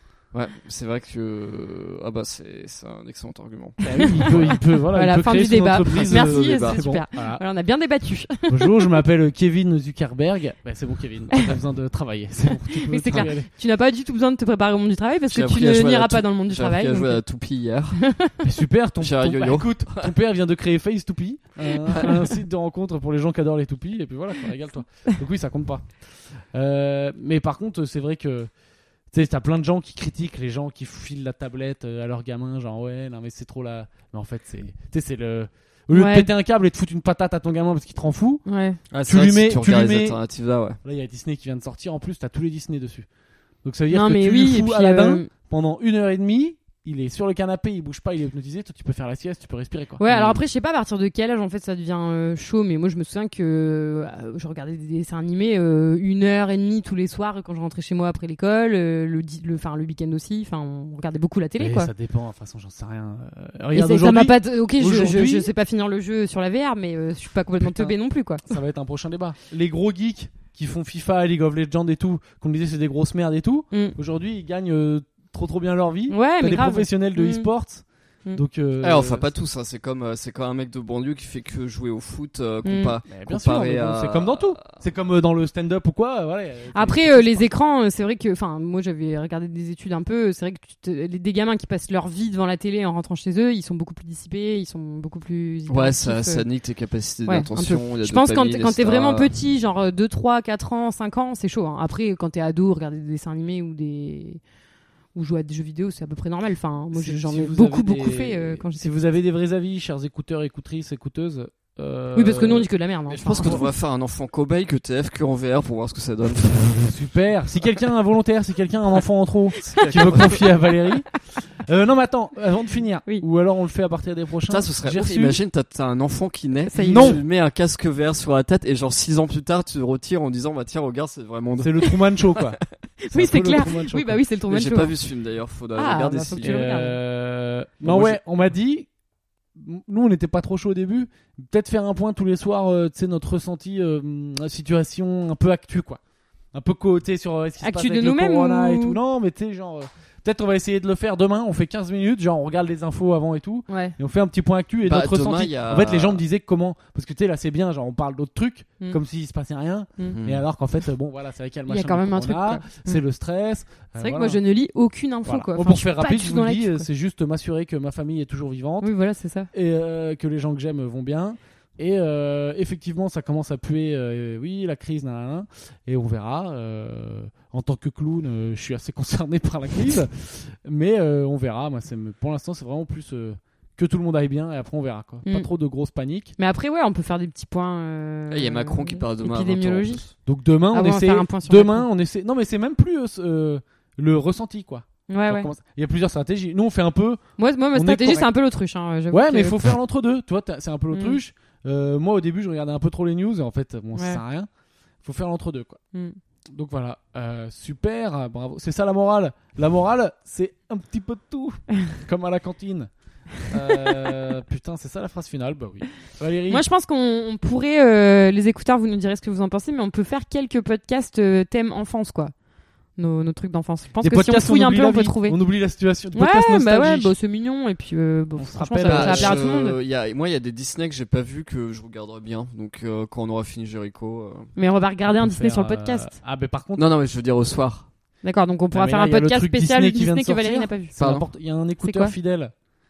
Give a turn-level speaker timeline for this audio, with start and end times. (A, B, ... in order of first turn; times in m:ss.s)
0:00.3-0:04.6 A
0:03.8-0:07.4 B
0:03.9-0:09.0 C
0:05.9-0:06.9 A
0:08.5-0:13.5 B
0:11.3-0:11.6 C
0:12.5-0:17.2 C
0:15.3-0:18.0 A
0:18.0-0:18.3 C
0:18.4-0:28.5 B
0:19.0-0:20.1 A
0:22.0-0:22.2 C
0:29.1-0:38.4 B
0:35.9-0:36.3 C
0:38.5-0:38.8 C
0:38.9-0:40.8 A
0:39.0-0:40.2 B
0:40.8-0:43.1 B
0:43.6-0:50.0 B
0:43.9-0:45.3 C
0:50.0-1:01.9 C
0:50.1-0:50.4 A
1:01.6-1:05.5 B
1:03.7-1:08.6 C
1:07.6-1:07.9 B
1:08.4-1:19.3 B
1:16.1-1:17.5 C
1:18.8-1:24.6 A
1:22.6-1:23.0 C
1:23.1-1:27.5 B
1:26.7-1:36.4 C
1:35.7-1:39.3 A
1:37.2-1:44.4 C
1:45.1-1:48.9 C
1:46.9-1:52.7 B
1:52.1-1:53.7 C
1:53.1-1:56.9 A
1:56.7-2:01.1 B
1:59.6-2:00.5 A
2:01.6-2:05.4 B
2:04.5-2:12.0 A
2:06.7-2:07.2 C
2:06.8-2:07.2 B
2:11.6-2:12.6 B
2:13.0-2:14.9 C
2:13.1-2:14.2 B
2:14.5-2:16.8 A
2:15.7-2:17.0 C
2:16.4-2:18.9 B
2:17.8-2:18.2 A
2:19.6-2:26.0 B
2:26.5-2:44.4 B
2:27.6-2:29.0 C
2:33.7-2:33.9 C
2:34.8-2:36.2 A
2:40.1-2:40.4 A
2:41.7-2:43.0 C
2:44.0-2:46.8 C
2:45.2-2:48.9 B
2:48.8-2:49.5 C
2:49.5-3:06.3 B
3:06.4-3:10.0 C
3:08.3-3:10.1 A
3:10.2-3:17.2 B
3:10.7-3:11.9 C
3:15.1-3:15.5 C
3:17.4-3:19.7 C
3:17.7-3:18.3 B
3:19.1-3:24.5 B
3:20.9-3:21.2 C
3:23.9-3:24.2 C
3:25.0-3:25.8 B
3:26.5-3:32.9 B
3:33.4-3:36.6 B
3:36.5-3:42.3 C
3:43.0-3:45.4 C
3:44.0-3:47.1 B
3:46.1-3:49.8 C
3:48.4-3:49.4 B
3:48.8-3:54.5 A
3:54.6-3:56.1 C
3:55.1-3:56.8 B
3:56.8-3:57.9 A
3:58.2-4:00.9 C
3:58.7-4:02.5 B
4:01.0-4:01.2 A
4:01.8-4:02.1 C